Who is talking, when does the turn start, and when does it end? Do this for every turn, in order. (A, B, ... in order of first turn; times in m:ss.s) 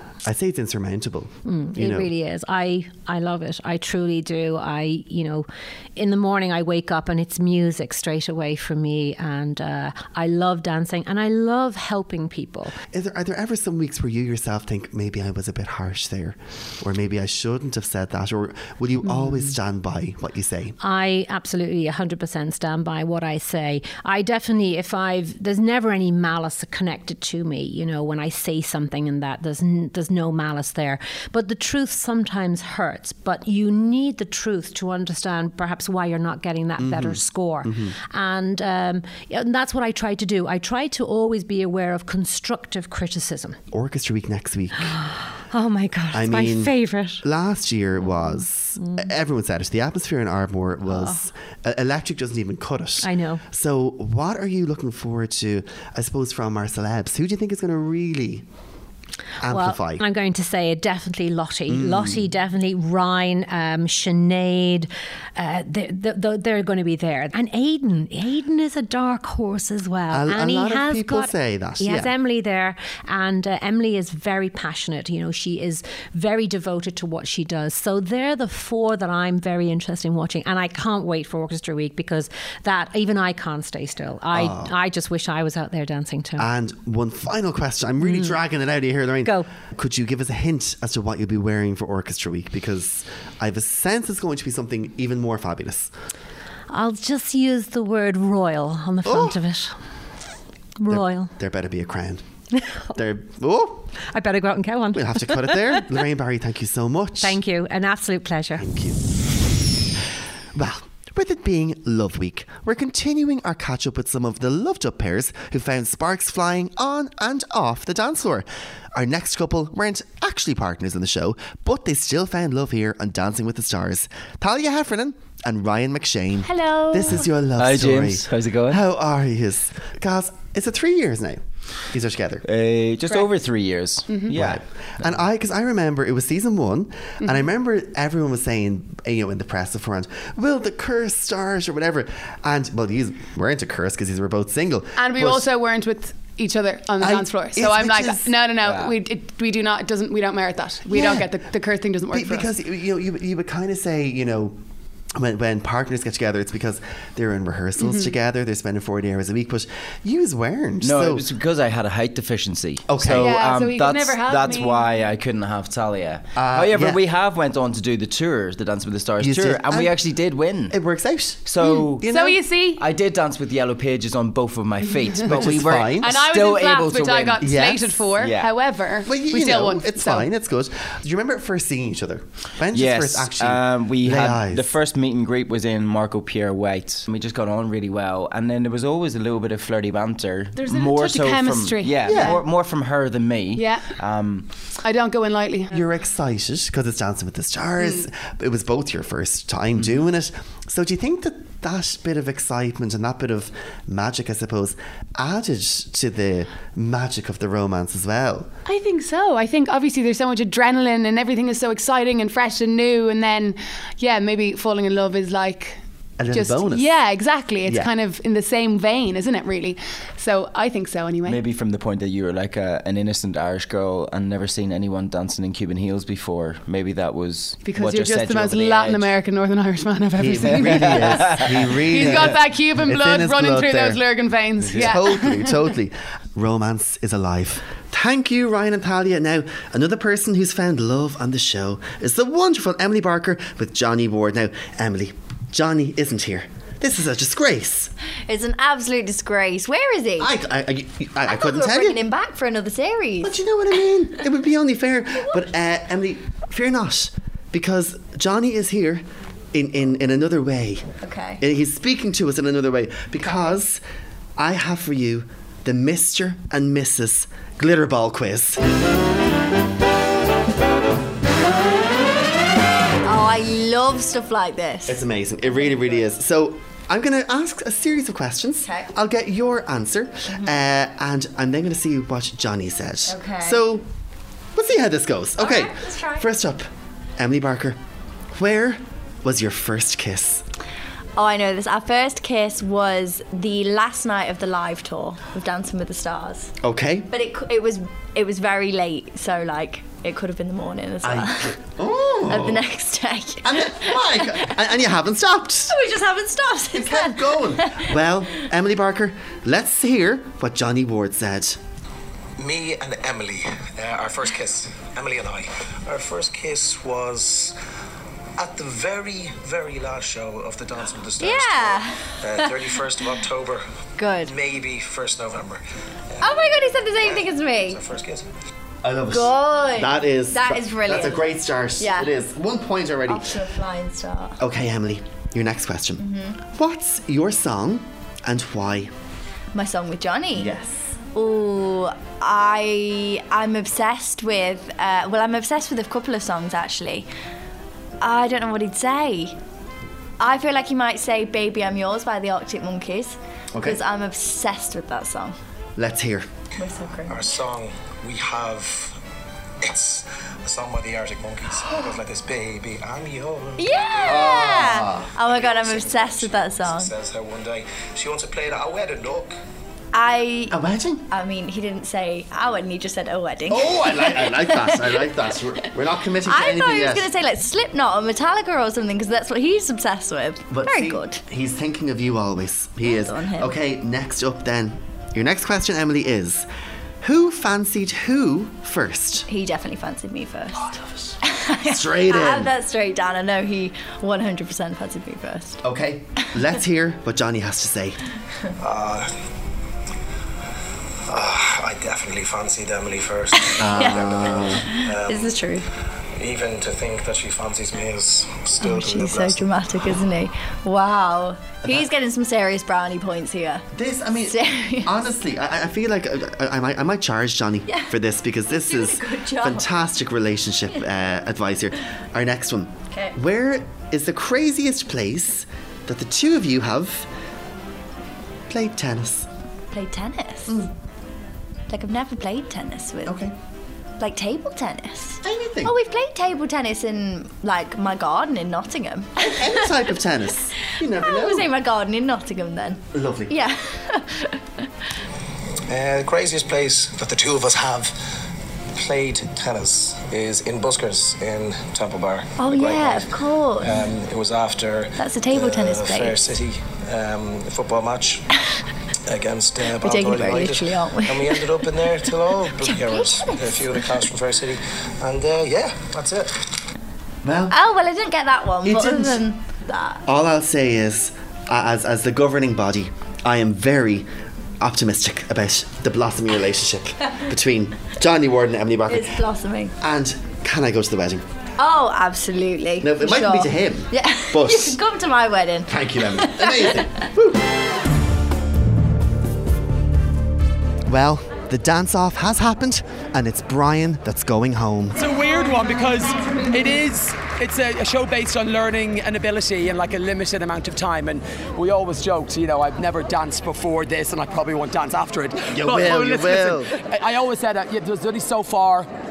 0:00.2-0:02.1 A
0:01.4-0:12.7 B
0:12.9-0:20.8 A
0:19.0-0:19.5 B
0:20.8-0:43.6 B
0:36.8-0:37.9 A
0:43.7-0:44.9 A
0:44.8-0:47.2 B
0:46.1-0:58.4 A
0:48.2-0:49.1 B
0:50.9-0:51.2 B
0:53.0-0:53.4 B
0:59.4-1:00.0 A
0:59.4-1:26.5 B
1:01.7-1:02.3 A
1:10.1-1:12.1 A
1:24.3-1:24.7 A
1:26.4-1:35.9 A
1:28.0-1:28.4 B
1:36.7-1:39.7 B
1:39.0-1:39.4 A
1:40.8-1:41.3 B
1:40.9-1:42.2 A
1:42.5-1:42.9 B
1:42.9-1:43.9 A
1:44.0-1:45.8 B
1:44.9-1:47.4 A
1:47.2-1:48.6 B
1:48.6-1:49.0 A
1:50.5-2:12.4 A
2:06.6-2:07.0 C
2:07.6-2:08.8 D
2:12.4-2:15.1 D
2:14.3-2:25.5 A
2:17.2-2:17.5 E
2:25.0-2:32.5 E
2:27.0-2:28.3 A
2:28.6-2:28.9 D
2:30.9-2:31.3 A
2:32.1-2:34.6 A
2:35.1-2:41.2 A
2:37.8-2:38.1 E
2:40.8-2:50.8 D
2:42.9-2:43.4 A
2:43.0-2:44.9 E
2:46.4-2:47.0 A
2:49.2-2:50.0 A
2:50.7-2:52.4 A
2:51.4-2:52.2 D
2:51.6-2:52.8 E
2:52.8-2:57.6 D
2:55.1-3:00.3 E
2:55.2-2:56.2 A
2:57.4-2:58.1 A
2:58.2-2:58.5 D
2:59.0-3:04.7 A
3:02.7-3:14.4 D
3:10.6-3:12.4 E
3:12.0-3:12.4 A
3:13.5-3:13.9 E
3:14.8-3:15.7 E
3:15.7-3:28.5 A
3:28.6-3:35.8 E
3:36.2-3:37.0 A
3:36.3-3:41.4 E
3:37.6-3:37.9 A
3:41.2-3:49.1 D
3:47.6-3:55.7 E
3:50.2-3:54.0 A
3:50.5-3:51.4 D
3:52.0-3:52.3 D
3:54.6-4:07.9 A
4:08.3-4:10.3 C
4:10.2-4:12.0 A
4:11.2-4:13.4 C
4:13.2-4:23.8 A
4:21.0-4:21.4 C
4:24.4-4:28.6 A
4:33.0-4:35.9 C
4:34.9-4:43.8 A
4:38.6-4:38.9 C
4:40.3-4:40.6 C
4:43.1-4:43.6 C
4:44.5-4:46.7 A
4:45.4-4:46.2 C
4:47.2-4:47.8 A
4:48.3-4:50.4 A
4:51.2-4:56.5 C
4:56.6-4:57.1 A
4:57.1-5:01.6 C
5:01.0-5:02.6 A
5:02.3-5:04.5 C
5:03.4-5:05.8 A
5:05.7-5:07.9 C
5:06.7-5:11.6 A
5:12.4-5:17.6 F
5:18.4-5:23.6 F
5:21.2-5:22.5 C
5:24.0-5:24.3 C
5:24.2-5:25.6 F
5:26.2-5:27.8 C
5:26.9-5:28.2 F
5:28.8-5:33.3 A
5:29.1-5:32.1 C
5:33.1-5:34.4 C
5:34.4-5:38.9 A
5:36.0-5:36.4 C
5:39.5-5:40.6 C
5:40.3-5:40.9 A
5:41.1-5:47.1 C
5:48.0-5:49.4 C
5:50.2-5:55.4 C
5:53.5-5:53.8 A
5:55.8-5:56.3 A
5:56.6-5:57.3 C
5:57.0-5:59.0 F
5:59.6-6:09.4 F
6:03.6-6:06.9 C
6:04.1-6:05.1 A
6:09.9-6:10.6 C
6:10.5-6:11.0 A
6:11.1-6:15.7 C
6:13.5-6:17.0 A
6:16.2-6:21.2 C
6:20.5-6:26.4 A
6:22.8-6:23.5 C
6:27.0-6:29.3 A
6:29.3-6:35.6 C
6:31.6-6:32.5 A
6:35.6-6:38.0 A
6:38.6-6:39.1 F
6:41.1-6:45.4 F
6:43.4-6:45.7 C
6:43.6-6:44.7 A
6:46.2-6:50.0 F
6:48.6-6:53.6 C
6:51.6-6:51.9 A
6:53.7-7:07.1 A
6:54.2-6:55.0 C
6:57.7-6:57.9 C
6:58.5-6:59.7 C
7:02.9-7:03.2 C
7:08.5-7:09.3 A
7:09.7-7:10.6 C
7:11.7-7:13.1 C
7:13.0-7:13.3 A
7:14.0-7:19.8 C
7:15.2-7:15.7 A
7:19.2-7:21.5 A
7:21.0-7:24.4 C
7:22.9-7:23.3 A
7:25.7-7:27.9 F
7:28.8-7:38.2 F
7:32.4-7:33.7 C
7:35.0-7:36.2 C
7:39.1-7:46.4 F
7:39.8-7:41.5 C
7:42.6-7:43.9 C
7:47.2-7:47.6 A
7:47.5-7:50.0 C
7:48.6-7:49.2 A
7:50.0-7:54.1 A
7:54.6-7:59.2 A
7:58.9-7:59.7 C
7:59.8-8:01.2 A
8:01.6-8:07.0 C
8:02.8-8:04.8 A
8:05.7-8:07.5 A
8:10.9-8:15.0 A
8:14.9-8:28.9 G
8:25.5-8:26.7 A